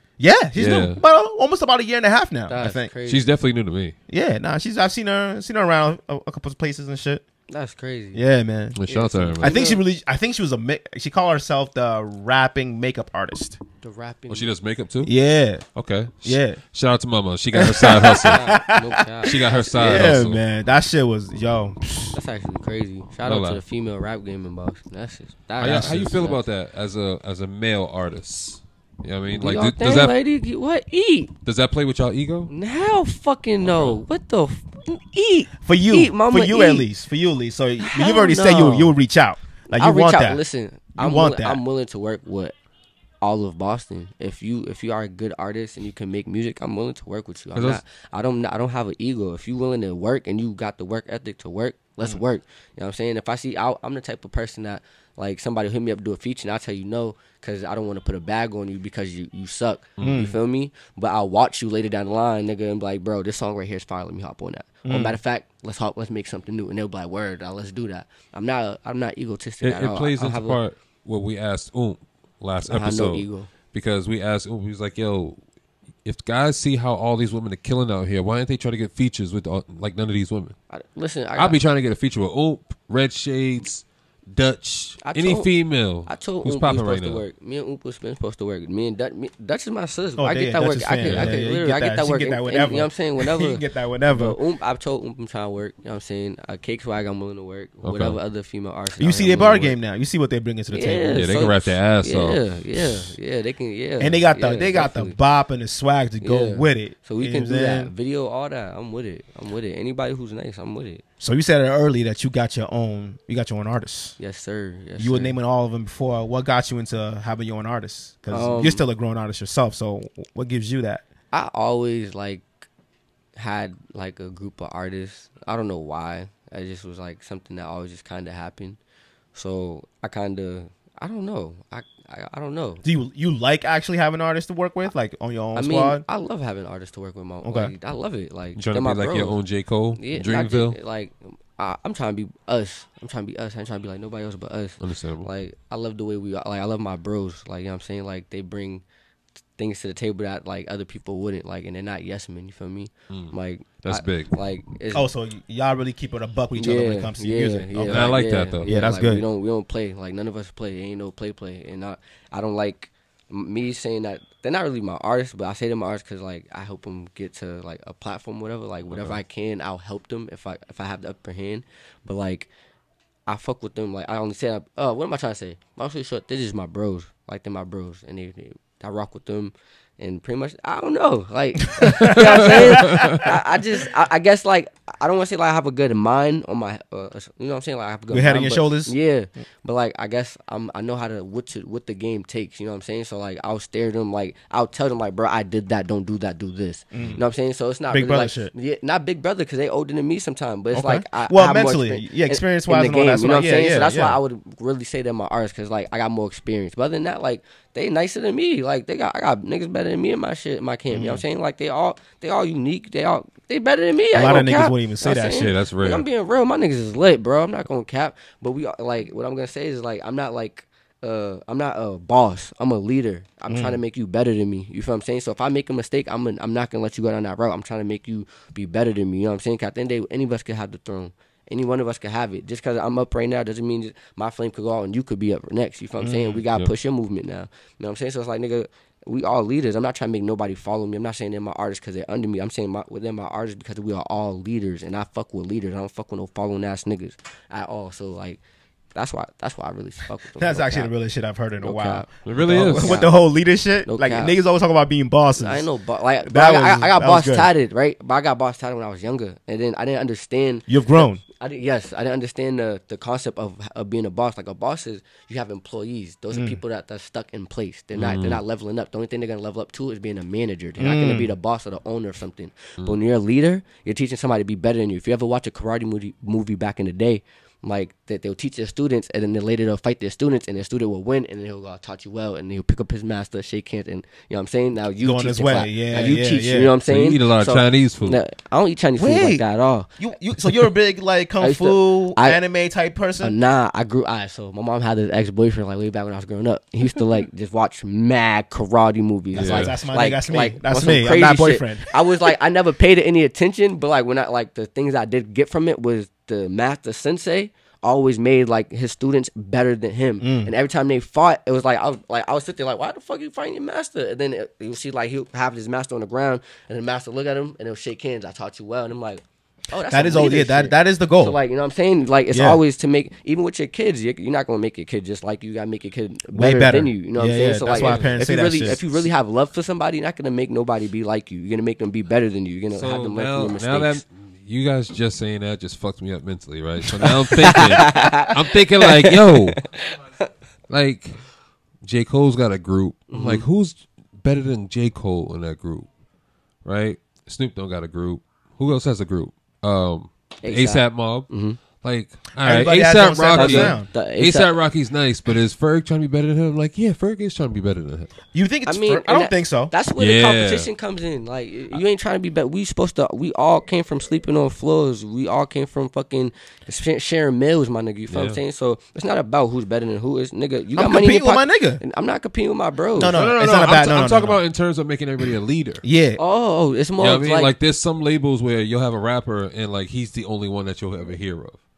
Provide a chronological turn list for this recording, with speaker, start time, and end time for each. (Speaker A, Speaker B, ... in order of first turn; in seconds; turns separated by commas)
Speaker A: 0.2-2.9, Speaker B: 0.6-1.0, Speaker C: 2.5-3.2, Speaker B: 3.0-3.9, Speaker A: 4.1-7.2, Speaker C: 7.5-8.2, Speaker A: 8.1-8.8, Speaker B: 8.8-9.6, Speaker C: 8.8-9.8, Speaker A: 9.4-13.6, Speaker C: 13.8-14.5, Speaker B: 14.3-15.1, Speaker A: 15.0-15.6, Speaker B: 15.8-18.5, Speaker A: 16.2-16.6, Speaker A: 17.5-22.2, Speaker C: 18.2-20.1, Speaker B: 19.2-20.4, Speaker C: 22.1-26.4, Speaker B: 23.2-23.6, Speaker A: 25.6-26.1, Speaker B: 25.6-30.1, Speaker C: 29.3-31.3, Speaker B: 31.4-32.5, Speaker C: 32.5-36.9, Speaker B: 33.6-34.0, Speaker A: 35.6-40.4, Speaker C: 37.8-38.9, Speaker C: 39.7-42.5, Speaker A: 41.0-41.6, Speaker C: 43.2-70.6, Speaker B: 47.5-47.8, Speaker A: 60.0-60.4, Speaker A: 64.8-65.2, Speaker B: 69.6-75.4, Speaker C: 72.6-73.5, Speaker B: 76.0-80.5, Speaker C: 80.7-81.6, Speaker B: 81.3-87.2, Speaker C: 85.0-85.5, Speaker C: 86.1-99.8, Speaker A: 90.2-94.4, Speaker B: 91.0-91.4, Speaker B: 97.8-98.2, Speaker A: 99.0-101.3, Speaker C: 100.7-105.2, Speaker B: 101.1-103.1, Speaker A: 104.0-107.9, Speaker C: 106.2-111.0, Speaker A: 111.2-114.2, Speaker C: 114.2-115.3, Speaker A: 115.0-121.0, Speaker C: 118.3-118.8, Speaker C: 121.3-122.5, Speaker C: 123.3-128.8, Speaker C: 129.3-132.8, Speaker A: 132.8-136.0, Speaker C: 135.5-139.4, Speaker A: 137.4-137.7, Speaker B: 138.5-140.8, Speaker C: 139.9-148.8, Speaker B: 144.8-145.3, Speaker C: 149.6-155.1, Speaker B: 153.1-154.3, Speaker A: 154.9-159.2, Speaker C: 156.5-172.5, Speaker B: 157.8-158.7, Speaker B: 168.9-169.2, Speaker C: 173.3-248.4, Speaker A: 181.8-183.2, Speaker B: 182.0-183.3, Speaker A: 188.1-188.9, Speaker A: 196.9-197.2, Speaker A: 197.9-198.5, Speaker A: 200.7-204.2, Speaker A: 210.9-211.2, Speaker A: 214.1-215.5, Speaker B: 215.1-216.0, Speaker A: 223.5-223.8, Speaker A: 236.0-236.4, Speaker C: 248.9-250.9, Speaker A: 250.4-255.7, Speaker C: 251.6-253.1, Speaker B: 252.2-253.0, Speaker C: 253.8-254.3, Speaker C: 255.3-260.6, Speaker A: 256.2-257.5, Speaker A: 260.7-261.2, Speaker C: 261.3-289.9, Speaker A: 266.3-266.6, Speaker B: 267.9-268.4, Speaker A: 270.8-271.3, Speaker A: 285.0-286.8, Speaker B: 286.9-288.2, Speaker A: 288.9-289.4, Speaker A: 290.0-293.3, Speaker C: 291.4-292.4, Speaker C: 293.2-334.0, Speaker A: 299.3-302.0, Speaker B: 299.3-299.8, Speaker A: 310.2-310.5, Speaker A: 319.9-321.4, Speaker A: 322.3-322.6, Speaker A: 326.3-329.1, Speaker B: 327.7-328.2, Speaker B: 332.7-339.6, Speaker C: 337.0-340.3, Speaker B: 340.7-341.2, Speaker B: 341.8-345.9, Speaker C: 343.1-343.4, Speaker B: 346.6-358.1, Speaker C: 350.4-351.6, Speaker A: 352.4-353.9, Speaker C: 353.3-354.6, Speaker A: 358.3-359.7, Speaker C: 358.6-373.2, Speaker B: 360.0-360.7, Speaker B: 368.1-368.4, Speaker A: 370.8-371.8, Speaker A: 372.9-374.4, Speaker B: 373.0-375.8, Speaker A: 375.8-376.2, Speaker C: 376.2-377.5, Speaker B: 377.0-381.6